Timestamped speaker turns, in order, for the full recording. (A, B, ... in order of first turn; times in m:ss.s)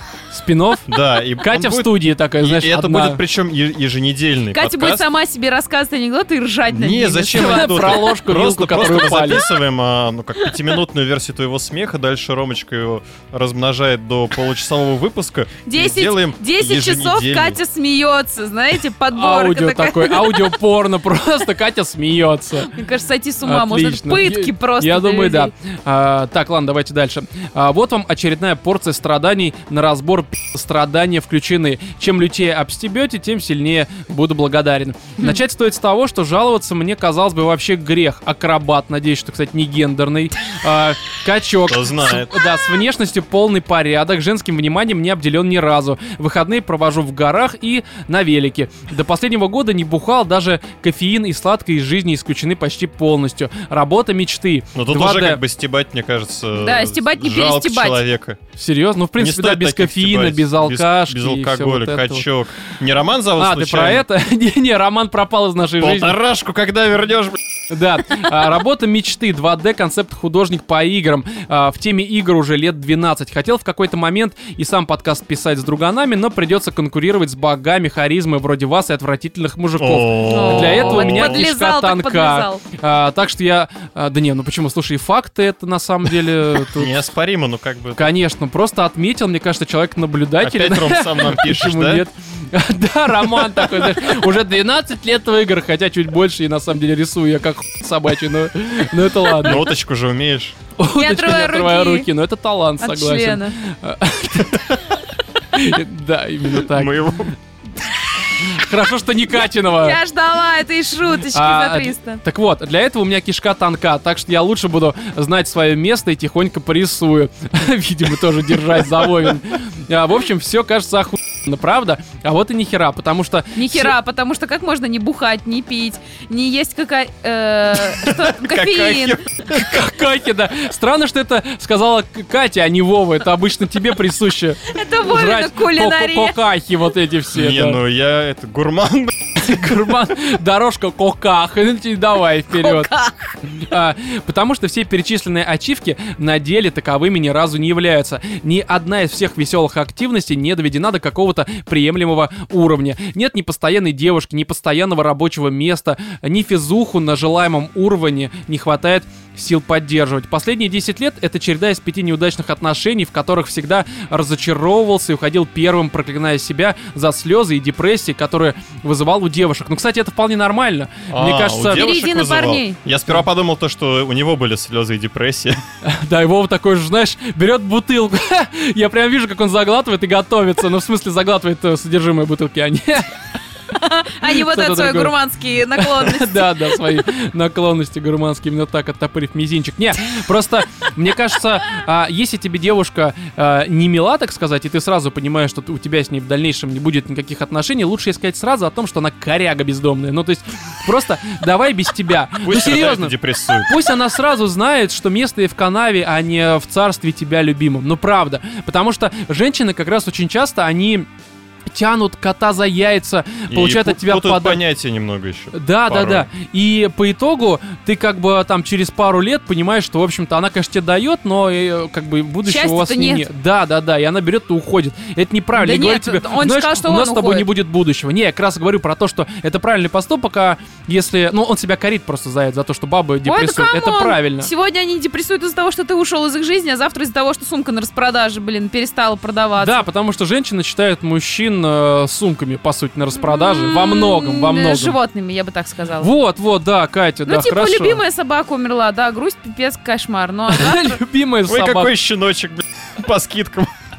0:00.3-0:03.2 A
0:00.9-0:05.0 B
0:04.5-0:08.1 C
0:06.7-0:17.6 B
0:07.3-0:09.4 A
0:15.6-0:20.6 C
0:19.1-0:22.7 A
0:22.7-0:25.5 C
0:23.4-0:55.4 A
0:41.6-0:42.4 B
0:54.7-0:58.4 B
0:56.6-0:58.0 C
0:58.6-1:02.2 A
0:59.2-1:04.0 B
1:03.4-1:06.2 A
1:05.8-1:07.4 B
1:07.7-1:26.9 A
1:19.8-1:21.5 B
1:20.2-1:22.6 C
1:26.7-1:28.1 B
1:28.0-1:39.7 A
1:30.4-1:32.0 B
1:39.4-1:40.6 B
1:40.8-1:45.0 A
1:41.0-1:42.1 C
1:42.8-1:43.6 C
1:45.5-1:47.2 A
1:46.6-1:47.4 B
1:48.4-1:50.0 A
1:49.4-1:52.2 C
1:51.3-2:03.9 A
2:03.6-2:09.2 C
2:08.0-2:09.8 B
2:09.5-2:17.8 A
2:14.6-2:16.4 C
2:17.3-2:19.4 B
2:19.4-2:22.9 A
2:22.5-2:23.4 C
2:23.4-2:51.8 A
2:51.1-2:55.6 B
2:51.6-2:52.8 C
2:55.8-3:03.2 A
3:03.7-3:07.0 C
3:04.3-3:05.1 A
3:05.7-3:31.1 A
3:22.4-3:23.7 B
3:31.7-3:34.6 A
3:33.5-3:36.3 B
3:35.5-3:54.5 A
3:42.4-3:43.3 C
3:45.6-3:47.5 C
3:53.2-3:59.8 C
3:59.6-4:05.0 A
4:03.2-4:06.1 C
4:06.0-4:08.0 A
4:07.2-4:11.0 C
4:10.5-4:11.9 A
4:11.4-4:13.7 B